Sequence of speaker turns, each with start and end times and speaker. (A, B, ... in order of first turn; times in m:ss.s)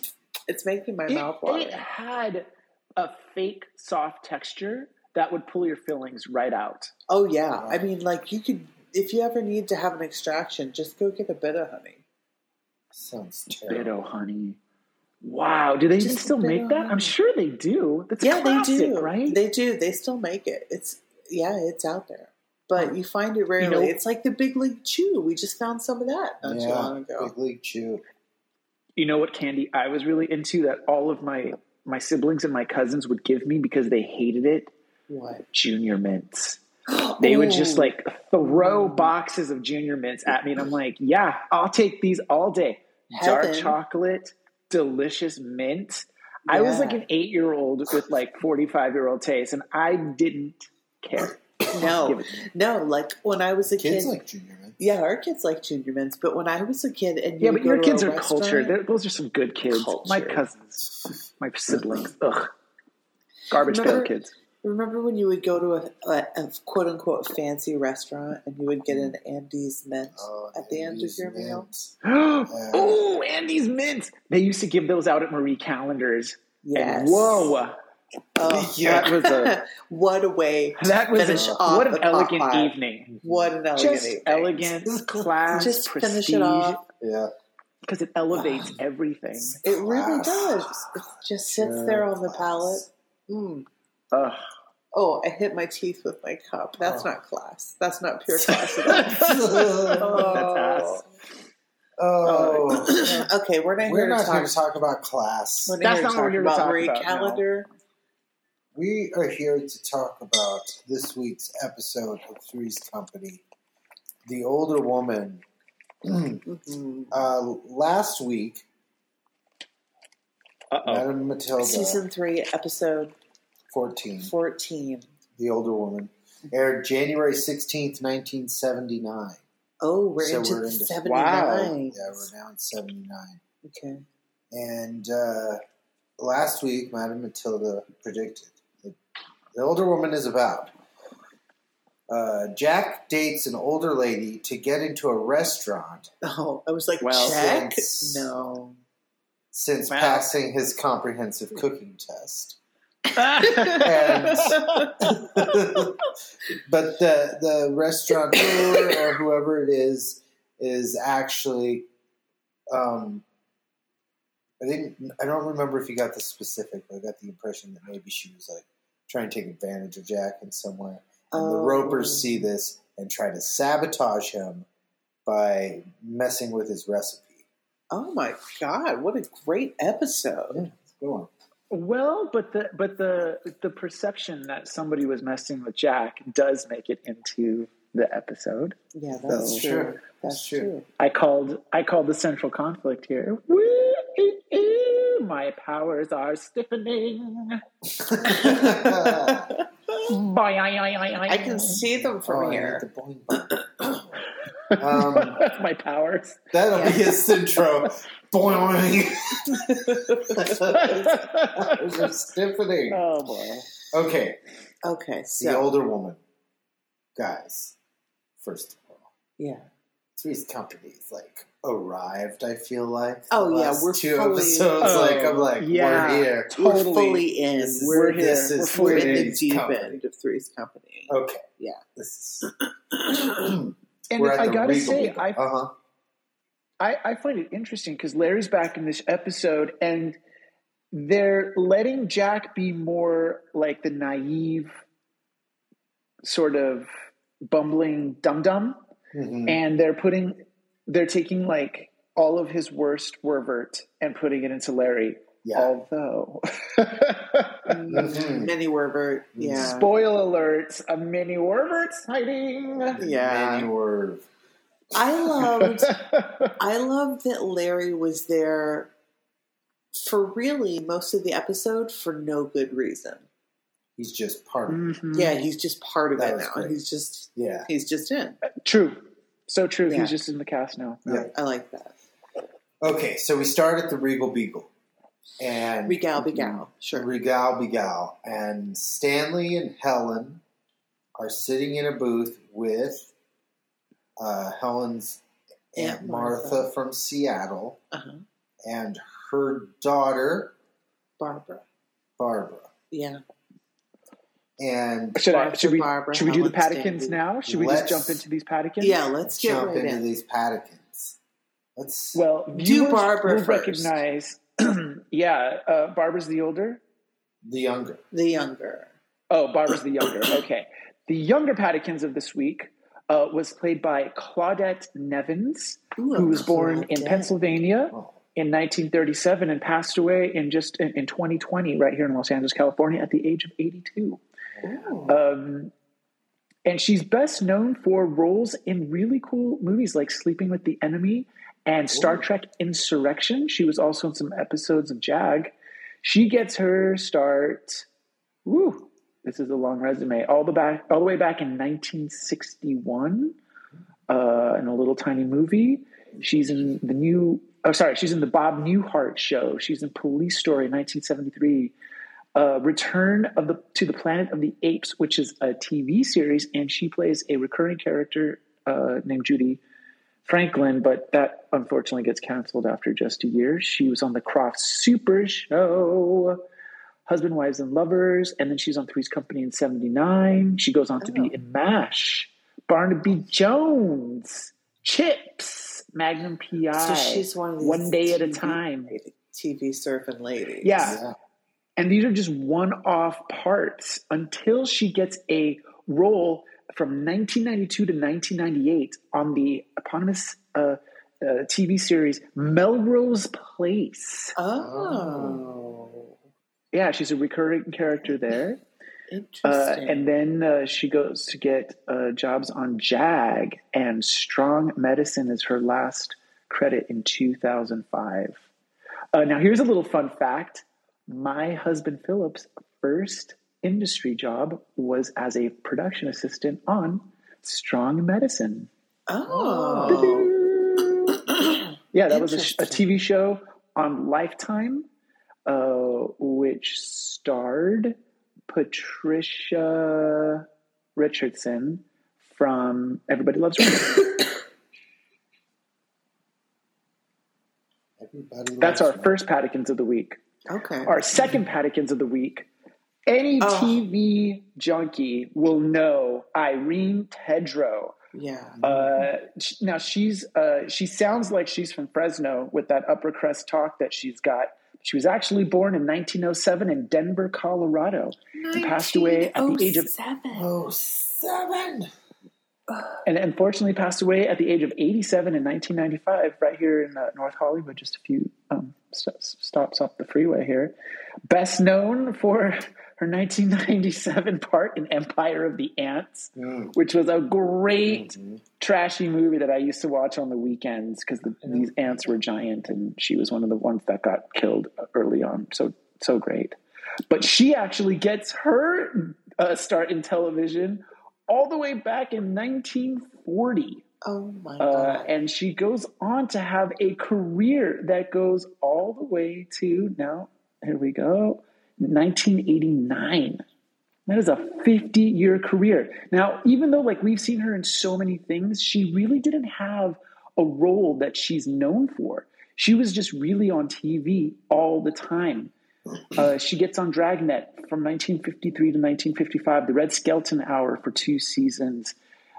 0:00.5-0:01.9 A
0:01.1-0:06.9 B
0:07.1-0:12.0 A
0:12.9-0:13.9 C
0:13.5-0:14.6 B
0:15.2-0:19.4 B
0:16.0-0:17.1 A
0:18.2-0:27.3 A
0:23.6-0:23.9 B
0:26.4-0:28.0 C
0:29.0-0:34.7 B
0:35.1-0:35.4 A
0:35.5-0:36.6 B
0:36.9-0:39.1 A
0:37.2-0:52.4 B
0:43.1-0:43.8 A
0:46.5-0:47.0 A
0:51.7-0:54.2 A
0:53.7-0:54.8 C
0:54.8-0:58.7 A
0:57.4-1:02.5 B
0:59.7-1:00.4 A
1:03.5-1:04.3 B
1:03.5-1:04.1 A
1:04.6-1:11.7 A
1:08.9-1:09.1 C
1:10.1-1:13.1 C
1:12.0-1:17.7 B
1:16.6-1:17.6 A
1:18.4-1:24.7 A
1:18.5-1:19.2 C
1:18.8-1:19.6 B
1:20.8-1:23.1 B
1:21.3-1:21.6 C
1:23.1-1:23.5 C
1:23.8-1:26.8 B
1:24.9-1:25.3 C
1:25.5-1:26.8 A
1:27.0-1:27.3 C
1:27.9-1:29.6 B
1:28.3-1:28.7 A
1:29.4-1:32.9 C
1:29.6-1:33.7 A
1:34.1-1:34.4 B
1:34.9-1:41.0 A
1:36.8-1:37.1 C
1:38.5-1:41.0 B
1:38.9-1:40.2 C
1:42.0-1:43.1 C
1:42.2-1:43.3 B
1:42.9-1:44.6 A
1:43.8-1:45.8 C
1:45.6-1:47.7 A
1:45.8-1:47.4 B
1:48.7-1:53.4 C
1:54.2-1:55.4 C
1:56.0-1:56.4 C
1:56.4-1:57.1 A
1:57.1-1:58.6 C
2:00.7-2:01.1 B
2:00.8-2:02.0 C
2:01.6-2:03.1 A
2:03.7-2:04.3 C
2:04.2-2:05.1 A
2:05.4-2:09.4 C
2:09.8-2:12.2 A
2:10.2-2:11.0 C
2:11.0-2:11.7 B
2:11.9-2:13.4 C
2:13.6-2:14.0 A
2:14.5-2:15.6 C
2:16.2-2:19.0 C
2:19.5-2:20.7 C
2:22.1-2:26.1 C
2:26.2-2:28.8 A
2:27.0-2:27.4 B
2:27.1-2:28.3 C
2:29.5-2:32.6 C
2:29.9-2:30.3 B
2:33.1-2:34.8 B
2:33.4-2:35.1 A
2:33.7-2:41.9 C
2:38.5-2:39.0 A
2:42.7-2:43.2 C
2:44.6-2:54.6 C
2:51.3-2:52.5 A
2:55.2-2:57.4 C
2:57.9-3:00.6 A
3:00.5-3:01.3 C
3:01.7-3:08.8 B
3:08.9-3:10.8 A
3:09.3-3:09.7 B
3:09.3-3:10.7 C
3:11.0-3:17.6 B
3:18.0-3:19.5 C
3:18.2-3:20.0 A
3:20.0-3:21.8 B
3:21.3-3:22.8 A
3:22.0-3:24.2 C
3:24.6-3:26.6 B
3:24.8-3:25.4 C
3:26.5-3:33.0 C
3:26.7-3:27.1 A
3:29.5-3:30.9 A
3:30.7-3:32.1 B
3:32.9-3:33.7 B
3:33.9-3:34.4 C
3:34.8-3:35.7 A
3:35.4-3:36.2 C
3:37.2-3:37.7 C
3:38.4-3:39.1 C
3:39.4-3:39.7 A
3:40.2-3:46.8 C
3:43.3-3:45.1 A
3:44.8-3:47.3 B
3:46.5-3:51.8 A
3:47.6-3:49.9 C
3:47.8-3:49.4 B
3:51.1-3:51.4 C
3:52.0-3:55.7 C
3:54.1-3:55.4 B
3:56.8-4:00.2 B
4:00.9-4:04.7 B
4:06.2-4:06.9 B
4:07.4-4:08.8 B
4:09.1-4:09.6 C
4:09.5-4:17.8 B
4:15.4-4:15.7 C
4:17.7-4:19.9 A
4:17.9-4:18.5 C
4:19.4-4:19.8 C
4:19.6-4:23.0 B
4:22.9-4:23.7 A
4:22.9-4:24.3 C
4:24.9-4:26.0 A
4:25.8-4:26.5 B
4:26.6-4:28.9 A
4:29.9-4:33.2 A
4:34.0-4:34.9 C
4:34.7-4:35.4 B
4:35.1-4:38.4 A
4:36.2-4:36.8 C
4:37.3-4:37.7 C
4:38.5-4:41.3 B
4:39.9-4:40.2 A
4:41.3-4:41.9 A
4:42.8-4:44.7 C
4:45.4-4:50.4 C
4:45.8-4:47.1 A
4:51.2-4:53.1 C
4:54.2-4:55.2 C
4:55.7-4:57.8 C
4:55.8-4:56.7 A
4:57.9-4:58.2 A
4:58.6-5:00.5 C
5:01.2-5:01.6 A
5:02.2-5:02.7 C
5:02.9-5:03.2 A
5:04.6-5:05.2 C
5:05.1-5:09.0 B
5:05.2-5:07.2 A
5:07.4-5:08.2 C
5:08.8-5:10.0 A
5:09.2-5:11.2 C
5:11.8-5:12.2 C
5:12.1-5:16.8 B
5:12.5-5:14.0 A
5:17.4-5:18.0 C
5:18.1-5:18.9 A
5:19.3-5:34.2 B
5:26.0-5:27.4 A
5:27.9-5:28.2 C
5:34.6-5:35.1 C
5:34.6-5:35.1 A
5:35.1-5:35.7 B
5:36.6-5:47.8 B
5:41.9-5:42.2 C
5:48.4-5:53.4 B
5:54.1-6:01.7 B
6:02.3-6:09.6 B
6:10.2-6:16.4 B
6:17.1-6:28.9 B
6:21.0-6:21.3 A
6:26.7-6:31.0 A
6:30.6-6:31.0 B
6:30.8-6:31.2 C
6:31.8-6:44.3 B
6:44.4-6:46.0 A
6:44.6-6:45.7 C
6:46.7-6:48.6 B
6:49.1-6:50.0 A
6:49.4-6:58.4 B
6:59.1-7:08.7 B
7:09.1-7:10.3 A
7:09.3-7:11.3 B
7:11.3-7:12.9 A
7:11.9-7:14.9 B
7:15.4-7:18.0 B
7:18.5-7:24.3 B
7:28.0-7:29.1 C
7:28.6-7:30.2 B
7:30.5-7:31.0 A
7:30.8-7:32.5 B
7:33.1-7:37.9 B
7:33.4-7:33.8 A
7:38.1-7:38.6 A
7:38.6-7:39.1 C
7:38.6-7:49.9 B
7:48.4-7:50.5 A
7:50.3-7:51.9 C
7:53.0-8:00.7 B
8:01.3-8:16.6 B
8:06.4-8:06.7 C
8:07.8-8:08.4 C
8:17.1-8:23.8 B
8:24.0-8:25.1 A
8:24.6-8:33.4 B
8:34.1-8:45.5 B
8:46.1-8:51.9 B